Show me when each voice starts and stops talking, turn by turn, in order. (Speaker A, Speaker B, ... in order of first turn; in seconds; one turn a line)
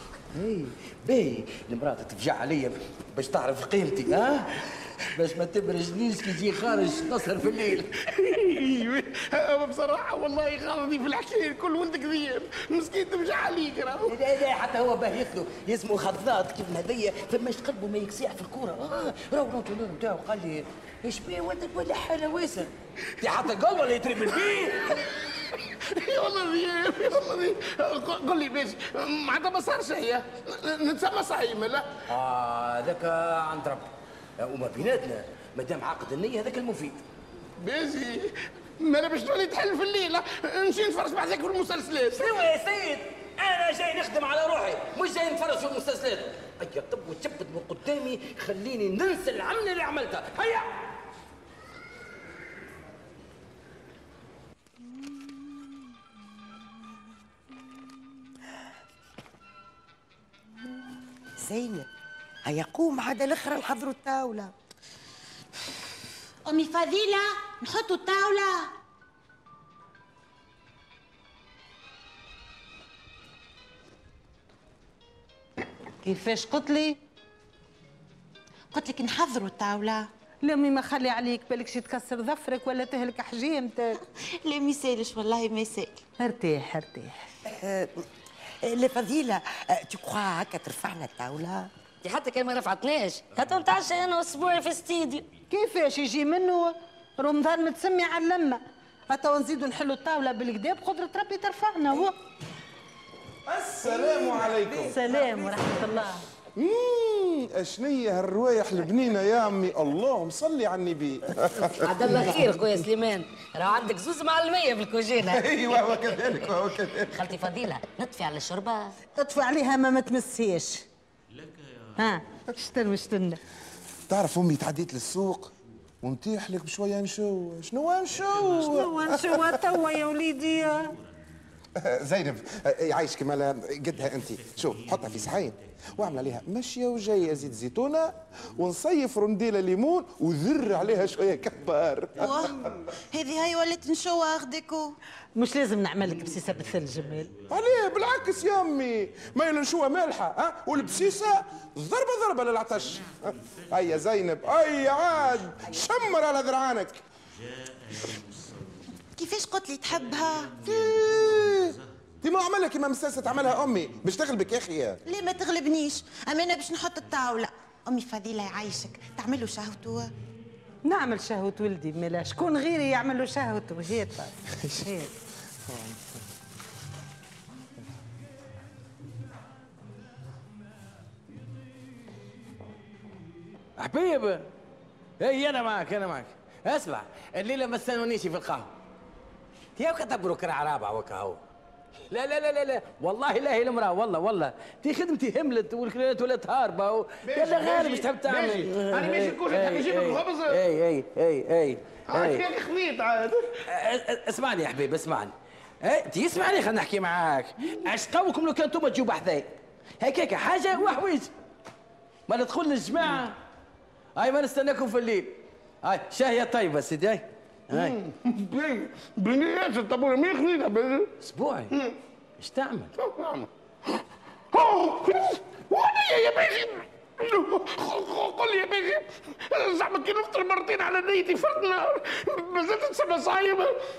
Speaker A: 0.3-7.9
Speaker B: 8.1-14.1
Speaker A: 14.1-24.9
Speaker B: 25.8-31.9
Speaker A: 32.1-37.0
Speaker B: 37.6-42.3
Speaker A: 42.1-50.7
Speaker C: 61.4-61.9
Speaker C: 62.4-64.5
Speaker D: 66.5-68.7
Speaker E: 76.0-77.0
Speaker D: 78.7-80.1
Speaker E: 80.4-84.0
Speaker D: 84.4-86.0
Speaker E: 86.2-87.2
Speaker C: 87.5-88.0
Speaker C: 88.6-91.7
Speaker F: 92.0-95.3
Speaker E: 95.5-102.1
Speaker G: 103.5-105.6
Speaker E: 103.9-106.2
Speaker G: 106.5-112.2
Speaker F: 111.7-115.9
Speaker G: 115.2-117.2
Speaker F: 117.1-118.9
Speaker E: 119.2-120.8
Speaker E: 122.0-123.4
Speaker G: 124.1-129.5
Speaker E: 128.6-130.9
Speaker G: 131.8-142.7
Speaker D: 142.2-142.6
Speaker D: 143.1-144.9
Speaker E: 145.4-147.3
Speaker G: 147.5-157.0
Speaker D: 159.2-160.6
Speaker G: 160.6-165.0
Speaker D: 165.1-170.1
Speaker E: 170.8-175.1
Speaker G: 175.7-176.0
Speaker A: 183.8-184.5
Speaker A: 185.2-188.7
Speaker A: 189.8-191.4
Speaker A: 192.1-202.4
Speaker B: 197.2-200.6
Speaker B: 202.1-203.5
Speaker A: 203.7-211.3
Speaker A: 212.3-213.4
Speaker A: 214.2-217.9
Speaker B: 217.7-221.1
Speaker A: 221.2-221.7
Speaker A: 222.4-222.9
Speaker B: 223.0-223.5
Speaker B: 224.5-233.8